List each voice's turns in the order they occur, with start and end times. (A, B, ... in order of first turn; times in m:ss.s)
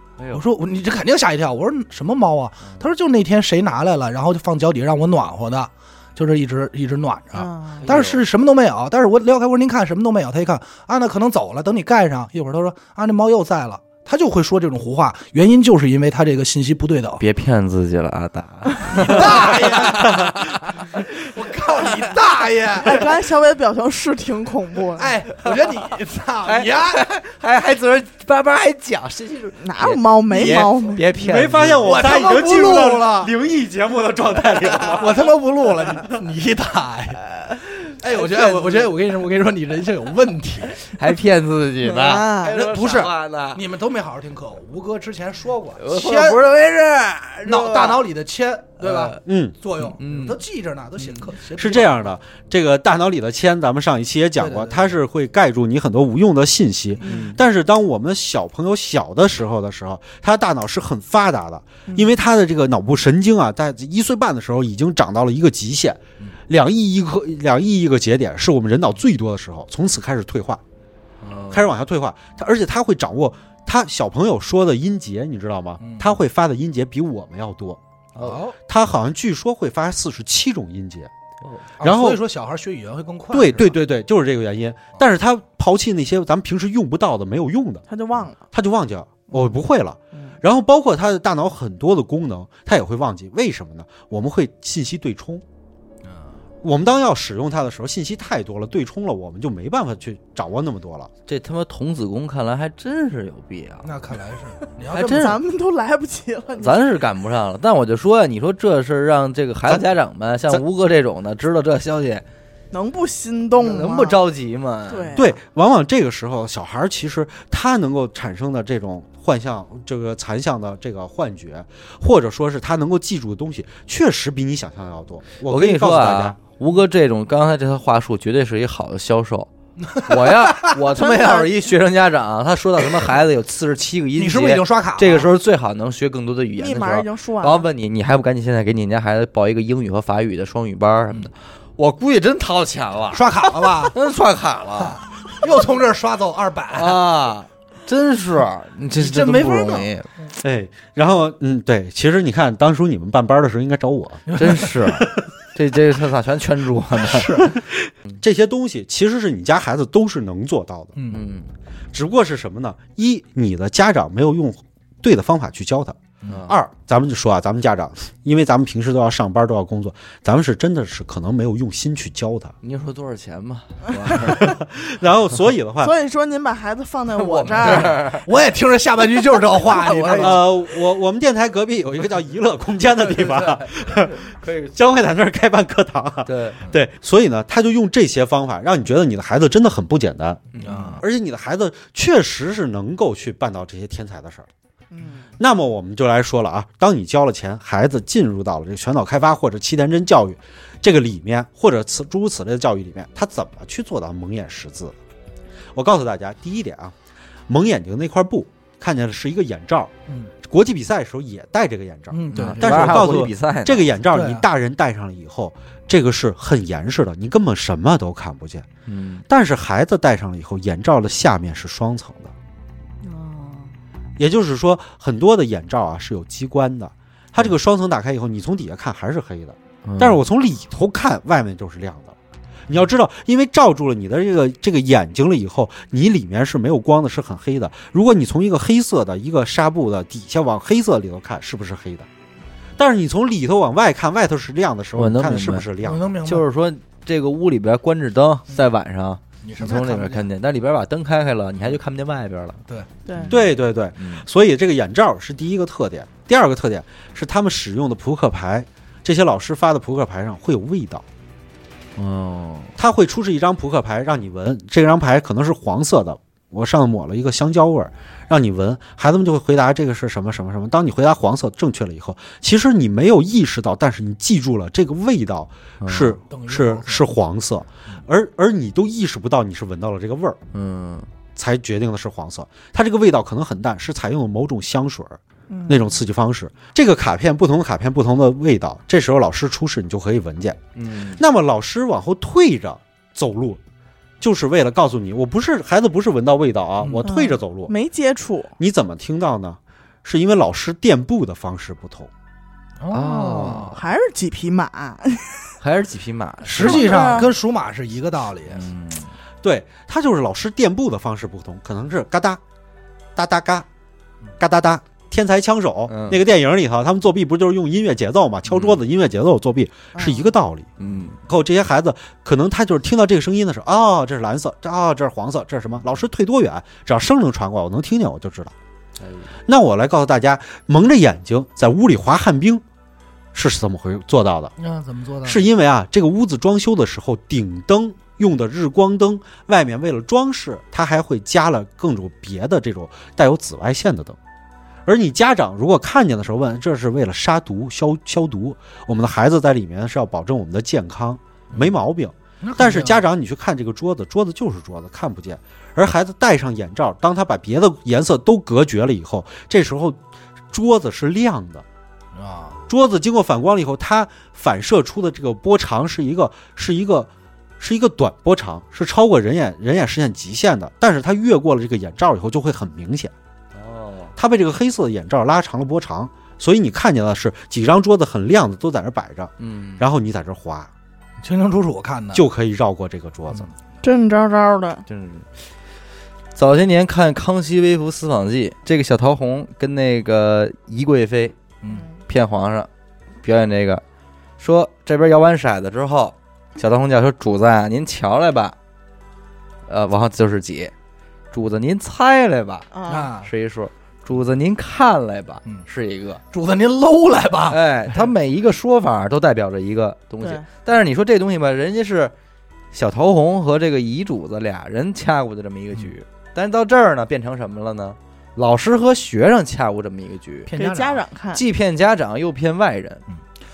0:00.2-0:00.4 A
0:00.3-0:17.2 B
0:07.3-0:07.8 C
0:07.8-0:08.2 A
0:17.2-0:21.0 A
0:18.8-0:23.1 B
0:21.7-0:22.0 A
0:22.8-0:25.2 C
0:24.9-0:27.0 B
0:26.4-0:32.0 A
0:29.6-0:31.1 C
0:30.3-0:30.6 B
0:31.2-0:35.3 D
0:31.8-0:33.3 B
0:34.8-0:37.2 B
0:38.0-0:40.9 B
0:38.4-0:38.6 A
0:40.8-0:43.6 A
0:41.8-0:42.6 C
0:42.4-0:46.4 B
0:45.8-0:48.0 A
0:47.4-0:52.1 B
0:48.8-0:49.2 A
0:49.2-0:49.6 D
0:49.8-0:50.4 A
0:51.0-0:51.3 A
0:51.5-1:10.6 D
0:54.4-0:55.0 B
0:57.0-0:57.4 A
0:57.0-0:57.4 C
1:11.2-1:11.7 A
1:11.5-1:17.8 D
1:15.8-1:16.2 B
1:18.1-1:18.4 A
1:18.2-1:18.6 B
1:18.7-1:21.1 D
1:21.8-1:23.8 B
1:21.8-1:22.2 D
1:23.3-1:27.9 D
1:27.9-1:28.4 C
1:28.5-1:35.4 D
1:36.0-1:36.4 B
1:36.6-1:41.1 D
1:41.3-1:43.9 A
1:43.8-1:45.4 B
1:44.9-1:45.4 A
1:45.1-1:46.8 C
1:46.6-1:52.2 A
1:52.7-1:54.2 C
1:53.6-1:55.2 A
1:54.9-1:55.4 C
1:55.2-2:06.4 D
2:05.4-2:09.5 A
2:09.8-2:10.7 B
2:10.0-2:25.0 A
2:10.9-2:11.7 C
2:14.2-2:15.3 B
2:16.6-2:17.6 C
2:23.1-2:23.9 B
2:24.8-2:27.0 B
2:26.7-2:30.1 A
2:29.0-2:29.9 B
2:30.4-2:34.3 D
2:34.3-2:34.9 B
2:34.4-2:37.4 A
2:37.0-2:37.5 B
2:37.3-2:40.9 D
2:41.0-2:41.2 B
2:41.1-2:41.5 A
2:41.9-2:52.5 D
2:46.3-2:46.6 A
2:52.6-2:54.6 A
2:54.1-2:55.9 D
2:55.8-2:58.0 C
2:57.1-2:58.2 A
2:57.6-3:00.5 B
2:59.6-3:00.4 C
2:59.8-3:00.4 A
3:00.1-3:14.5 D
3:03.0-3:04.7 A
3:06.2-3:06.6 A
3:10.5-3:11.0 A
3:10.6-3:11.0 B
3:14.9-3:15.3 C
3:15.4-3:24.9 D
3:25.7-3:26.9 D
3:27.5-3:29.9 D
3:30.4-3:38.7 D
3:32.1-3:33.2 B
3:32.3-3:33.9 A
3:34.1-3:34.4 B
3:38.9-3:39.2 A
3:39.3-3:42.3 D
3:43.0-3:43.7 C
3:44.2-3:52.1 D
3:49.9-3:50.2 A
3:52.7-4:02.1 D
4:02.8-4:06.1 D
4:05.0-4:05.6 A
4:05.8-4:06.4 B
4:06.2-4:12.6 A
4:09.4-4:10.3 B
4:13.1-4:13.4 C
4:13.1-4:13.4 A
4:13.3-4:21.0 D
4:14.0-4:14.2 A
4:22.0-4:22.7 A
4:22.8-4:40.4 D
4:35.8-4:36.2 A
4:36.3-4:37.1 B
4:40.5-4:41.1 A
4:41.4-4:50.6 D
4:45.5-4:45.9 C
4:50.8-4:51.2 A
4:51.2-4:53.6 D
4:54.2-4:57.7 D
4:56.8-4:57.1 B
4:57.0-4:58.5 C
4:58.6-5:02.1 D
5:02.8-5:03.8 B
5:02.9-5:03.8 A
5:03.6-5:05.5 C
5:05.6-5:07.2 A
5:06.4-5:08.7 B
5:06.6-5:07.3 C
5:08.5-5:09.1 A
5:09.4-5:12.4 D
5:13.2-5:13.6 D
5:14.4-5:20.7 D
5:15.9-5:16.2 A
5:18.5-5:18.8 A
5:19.9-5:20.3 C
5:20.8-5:21.2 A
5:21.2-5:28.5 D
5:29.0-5:29.3 A
5:29.5-5:32.6 D
5:33.3-5:34.5 D
5:34.6-5:35.4 B
5:35.2-5:44.2 D
5:44.8-6:00.0 D
5:52.4-5:53.0 B
6:00.5-6:01.6 D
6:02.1-6:02.6 B
6:02.7-6:07.1 D
6:07.6-6:13.1 D
6:13.5-6:14.1 A
6:14.2-6:20.7 D
6:19.4-6:19.8 A
6:21.2-6:22.2 B
6:22.1-6:23.5 D
6:23.8-6:24.8 C
6:24.9-6:25.3 A
6:26.3-6:31.4 A
6:32.1-6:32.7 A
6:33.2-6:33.8 A
6:34.4-6:38.6 A
6:39.7-6:40.7 A
6:41.3-6:42.7 A
6:42.7-6:43.1 C
6:42.9-6:43.3 B
6:43.2-6:46.2 A
6:46.3-6:48.1 B
6:47.5-6:52.1 A
6:50.2-6:50.4 C
6:52.7-7:00.5 A
7:00.5-7:01.0 B
7:00.5-7:01.4 C
7:01.3-7:03.0 A